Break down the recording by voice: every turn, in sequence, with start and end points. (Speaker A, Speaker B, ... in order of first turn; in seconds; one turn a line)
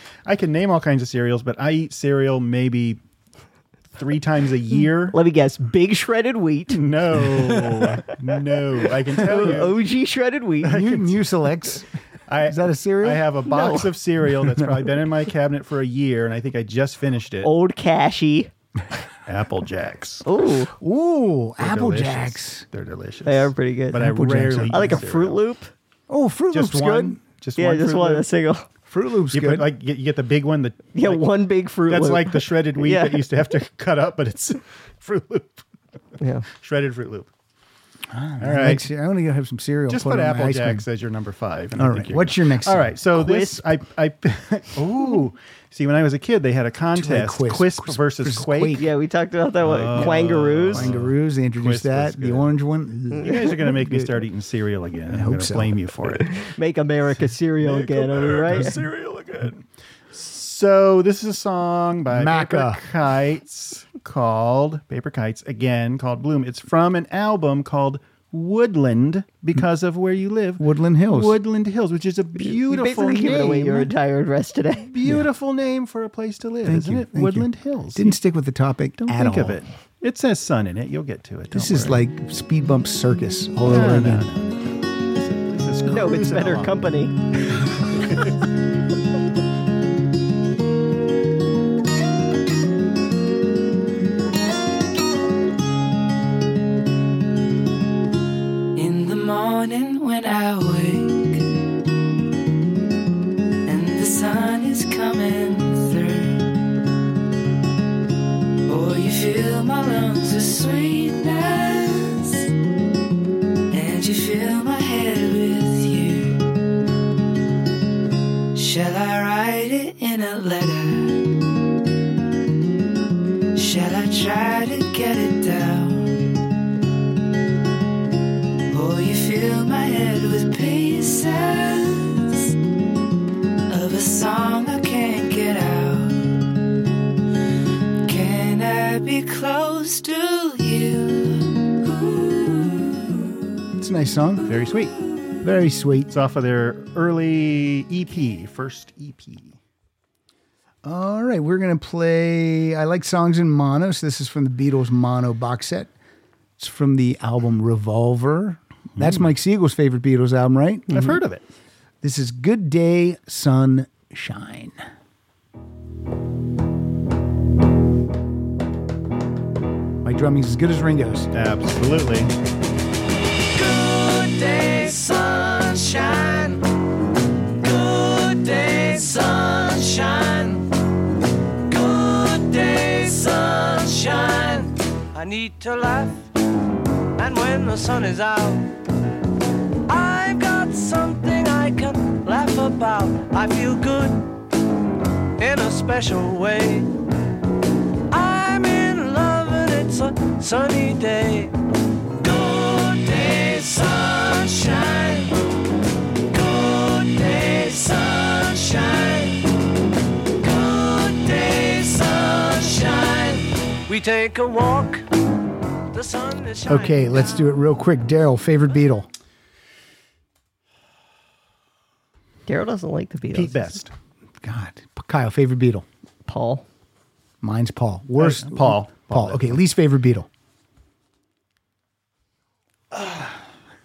Speaker A: 0.2-3.0
Speaker A: 3.9-5.2
Speaker B: 5.1-7.3
Speaker A: 6.7-9.8
Speaker B: 9.2-10.8
Speaker A: 10.6-11.3
Speaker C: 10.6-11.9
Speaker A: 12.3-17.5
Speaker C: 12.4-13.3
Speaker B: 13.5-13.8
Speaker B: 17.4-18.5
Speaker A: 19.2-20.2
Speaker B: 20.2-20.7
Speaker C: 20.8-22.6
Speaker A: 21.6-25.4
Speaker B: 23.2-24.1
Speaker C: 23.9-25.0
Speaker B: 24.7-25.7
Speaker C: 26.1-27.2
Speaker A: 26.5-28.2
Speaker B: 27.6-28.6
Speaker C: 28.9-29.7
Speaker A: 29.3-31.3
Speaker B: 30.9-33.2
Speaker A: 31.9-35.6
Speaker B: 36.2-36.5
Speaker A: 36.5-37.3
Speaker C: 38.1-40.8
Speaker A: 38.4-38.8
Speaker A: 39.9-48.8
Speaker C: 41.8-43.0
Speaker B: 43.1-43.6
Speaker C: 46.9-48.9
Speaker B: 48.8-50.9
Speaker A: 49.6-52.5
Speaker C: 49.9-54.1
Speaker A: 53.2-56.5
Speaker C: 55.1-56.0
Speaker B: 56.4-58.8
Speaker A: 57.6-73.9
Speaker C: 62.1-62.9
Speaker C: 70.6-71.3
Speaker B: 72.4-74.9
Speaker A: 74.9-78.2
Speaker C: 76.6-79.6
Speaker A: 79.0-82.0
Speaker C: 81.5-84.3
Speaker A: 83.6-86.8
Speaker B: 85.9-87.1
Speaker A: 87.9-88.3
Speaker D: 98.7-101.5
Speaker D: 103.6-106.5
Speaker D: 108.7-112.5
Speaker D: 113.7-116.4
Speaker D: 118.5-121.3
Speaker D: 123.5-126.2
Speaker D: 128.7-132.5
Speaker D: 133.7-136.4
Speaker D: 138.0-143.4
Speaker C: 143.8-144.5
Speaker A: 144.4-144.9
Speaker C: 145.4-146.1
Speaker A: 146.1-149.6
Speaker C: 150.8-155.9
Speaker C: 156.6-160.9
Speaker A: 159.0-159.2
Speaker A: 160.9-161.4
Speaker C: 162.0-164.8
Speaker C: 170.0-171.3
Speaker A: 171.3-172.3
Speaker E: 173.5-176.6
Speaker E: 177.6-180.6
Speaker E: 181.7-186.2
Speaker E: 187.2-188.6
Speaker E: 189.9-194.2
Speaker E: 195.4-196.9
Speaker E: 198.1-201.5
Speaker E: 202.2-205.3
Speaker E: 206.3-209.4
Speaker E: 210.4-215.0
Speaker E: 215.9-217.3
Speaker C: 216.7-219.1
Speaker B: 222.5-223.8
Speaker A: 223.3-223.9
Speaker C: 224.4-225.8
Speaker B: 226.2-226.6
Speaker C: 227.4-230.3
Speaker A: 228.2-229.6
Speaker A: 232.9-233.3